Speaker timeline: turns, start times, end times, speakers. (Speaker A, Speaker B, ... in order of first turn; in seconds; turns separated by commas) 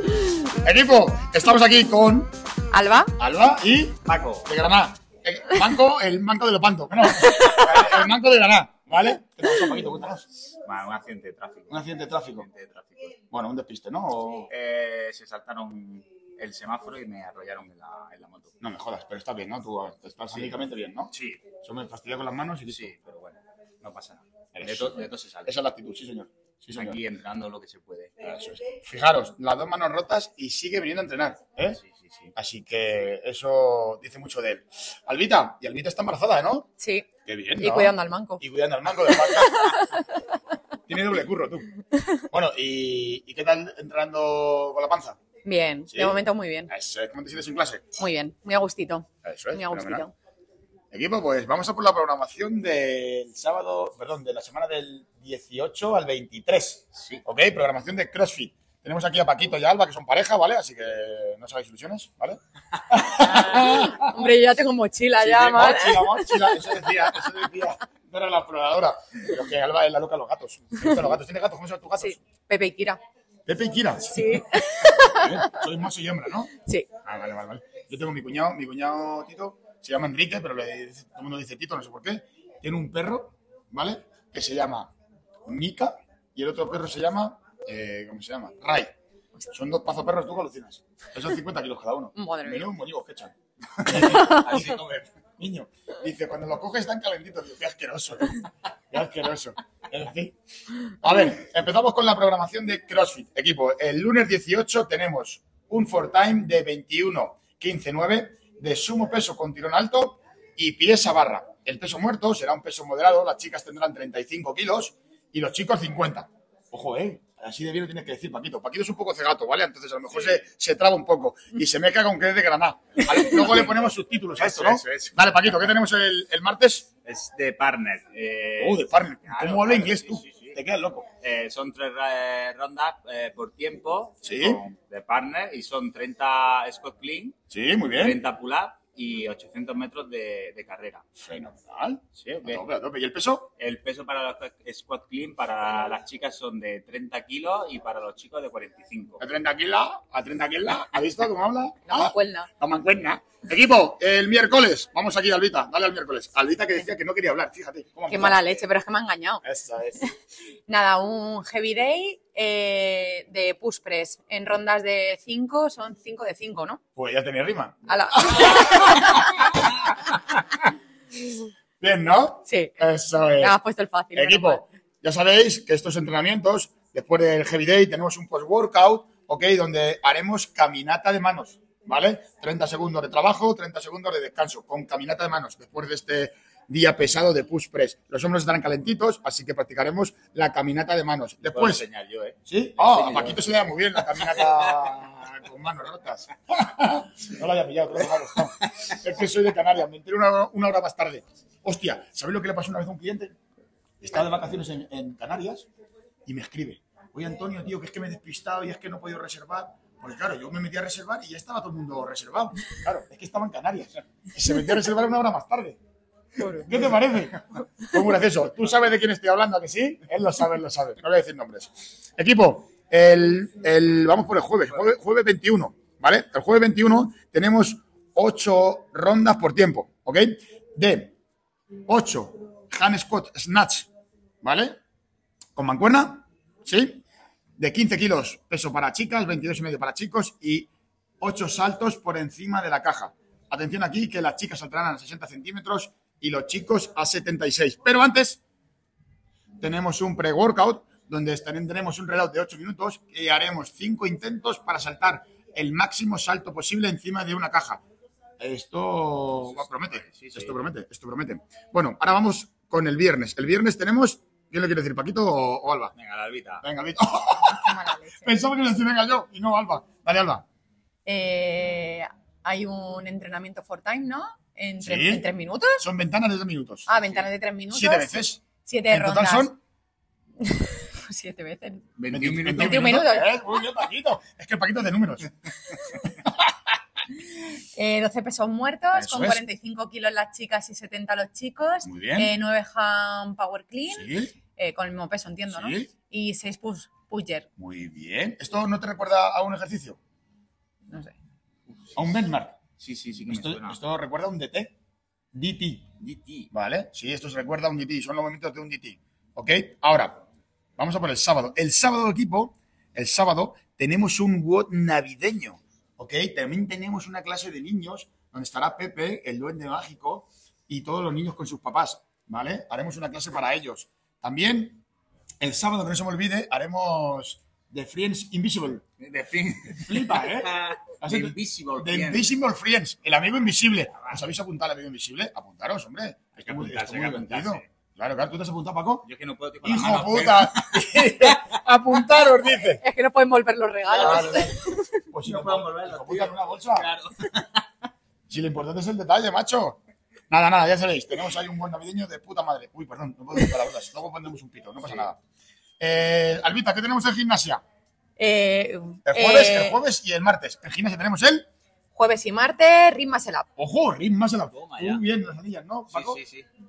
Speaker A: 0.6-2.3, Speaker B: 2.7-3.1, Speaker A: 3.2-10.3, Speaker C: 4.0-4.5, Speaker B: 7.3-7.6, Speaker C: 10.7-13.2, Speaker A: 11.7-12.5, Speaker A: 13.3-14.5, Speaker C: 14.5-18.6, Speaker A: 18.6-22.9, Speaker C: 20.3-20.6, Speaker C: 21.1-21.5, Speaker C: 22.6-25.5, Speaker A: 24.6-27.0, Speaker C: 26.7-28.3, Speaker A: 28.2-31.8, Speaker C: 31.7-32.3, Speaker A: 32.4-36.7, Speaker B: 36.8-38.4, Speaker A: 37.3-39.8, Speaker B: 39.2-40.0, Speaker A: 40.9-41.7, Speaker A: 42.3-45.2, Speaker B: 45.4-46.7, Speaker A: 45.9-47.8, Speaker B: 48.0-50.1, Speaker A: 49.2-50.0, Speaker A: 50.9-64.2, Speaker C: 56.9-57.2, Speaker B: 63.2-66.6, Speaker A: 65.2-72.2, Speaker B: 72.0-73.0, Speaker A: 73.5-76.5, Speaker B: 74.1-75.5, Speaker B: 76.6-76.9, Speaker A: 77.0-84.9, Speaker A: 85.5-88.9, Speaker A: 89.5-94.8, Speaker B: 92.2-92.7, Speaker C: 93.9-95.1, Speaker B: 94.0-94.4, Speaker A: 95.4-100.3, Speaker A: 100.9-126.9, Speaker C: 123.0-123.8, Speaker C: 124.4-125.8, Speaker C: 127.0-130.6, Speaker A: 128.6-131.1, Speaker C: 131.2-137.4, Speaker A: 134.2-134.6, Speaker A: 137.5-138.2, Speaker C: 137.9-141.0, Speaker A: 141.2-143.5, Speaker C: 142.1-142.6, Speaker C: 143.6-149.2, Speaker A: 149.2-158.7, Speaker B: 151.8-152.5, Speaker B: 158.1-159.4, Speaker A: 159.4-160.1, Speaker B: 160.7-166.8, Speaker A: 167.0-169.3, Speaker B: 167.9-169.3, Speaker A: 171.8-173.6, Speaker B: 172.5-172.8, Speaker B: 173.4-174.7, Speaker A: 174.2-191.9, Speaker C: 191.5-194.6, Speaker A: 192.5-203.4, Speaker A: 204.0-205.7, Speaker A: 206.3-215.8, Speaker B: 216.4-216.8, Speaker A: 216.4-231.2, Speaker A: 231.9-233.9, Speaker A: 234.4-234.8, Speaker A: 235.6-237.0, Speaker A: 237.6-240.7, Speaker A: 241.2-248.4, Speaker A: 249.6-257.8, Speaker A: 258.4-265.9, Speaker C: 259.4-260.6, Speaker C: 265.9-266.6, Speaker A: 266.6-270.4, Speaker B: 267.4-268.3, Speaker B: 271.1-275.9, Speaker A: 274.8-275.3, Speaker A: 275.8-279.6, Speaker B: 276.9-279.6, Speaker B: 280.4-281.8, Speaker C: 282.0-283.0, Speaker A: 282.1-286.5, Speaker B: 282.6-283.4, Speaker B: 287.7-297.5, Speaker A: 288.9-289.4, Speaker A: 291.9-292.3, Speaker A: 293.9-294.3, Speaker A: 295.5-295.9, Speaker A: 297.6-300.0, Speaker B: 300.9-301.1, Speaker A: 301.9-302.6, Speaker C: 302.8-303.8, Speaker A: 303.3-304.7, Speaker A: 305.3-305.9, Speaker C: 306.0-306.5, Speaker A: 306.5-310.2, Speaker A: 310.8-324.8, Speaker A: 325.4-328.8, Speaker C: 329.0-332.3, Speaker A: 329.9-339.1, Speaker C: 334.0-334.3, Speaker C: 336.4-337.7, Speaker C: 339.0-341.5, Speaker A: 339.6-342.8, Speaker B: 342.8-345.0, Speaker C: 343.9-344.5, Speaker A: 343.9-346.9, Speaker C: 345.2-347.6, Speaker A: 348.3-349.8, Speaker A: 350.3-355.2, Speaker A: 355.8-357.6, Speaker B: 358.2-359.8, Speaker A: 359.1-361.5, Speaker B: 361.9-363.5, Speaker A: 363.6-366.2, Speaker C: 364.5-365.0, Speaker C: 365.9-366.5